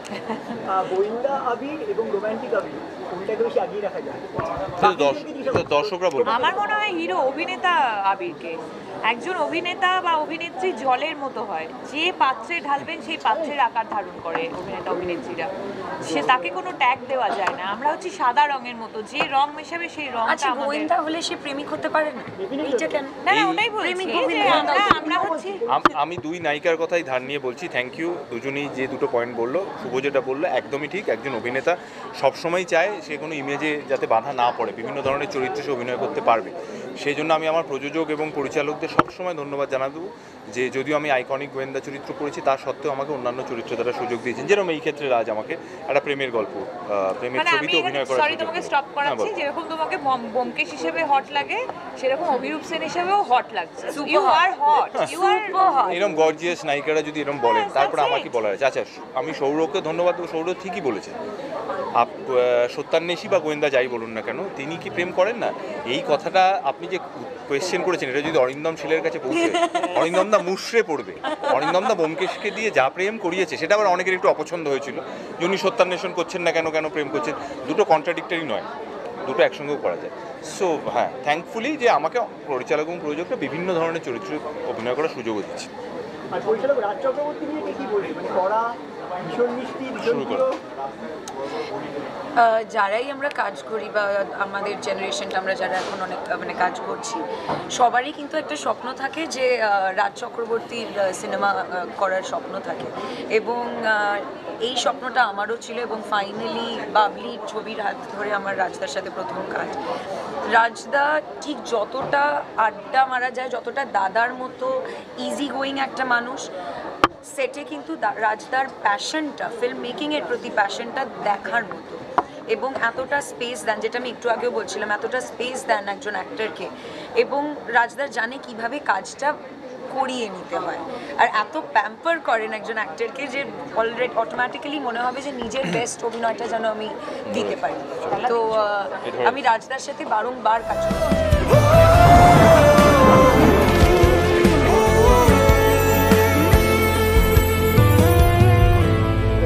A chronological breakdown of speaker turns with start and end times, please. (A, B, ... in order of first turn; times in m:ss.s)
0:00.7-0:06.5 A
0:04.8-0:06.5 B
0:06.3-0:20.9 C
0:20.3-0:23.2 D
0:22.4-0:23.0 A
0:23.2-0:25.6 C
0:23.3-0:23.7 B
0:23.8-0:25.4 D
0:24.7-0:25.5 A
0:25.7-0:49.3 B
0:47.3-0:55.6 C
0:53.9-0:54.4 D
0:54.9-0:55.3 B
0:55.3-0:55.9 D
0:55.9-1:01.2 B
0:57.4-0:58.4 C
1:02.0-1:18.7 B
1:19.2-1:25.7 B
1:26.3-1:28.8 A
1:29.3-1:30.6 A
1:30.0-1:30.5 B
1:32.4-1:37.2 D
1:37.7-1:49.8 D
1:50.5-1:56.4 D
1:57.3-2:09.4 D
2:09.9-2:21.2 D
2:17.3-2:19.5 B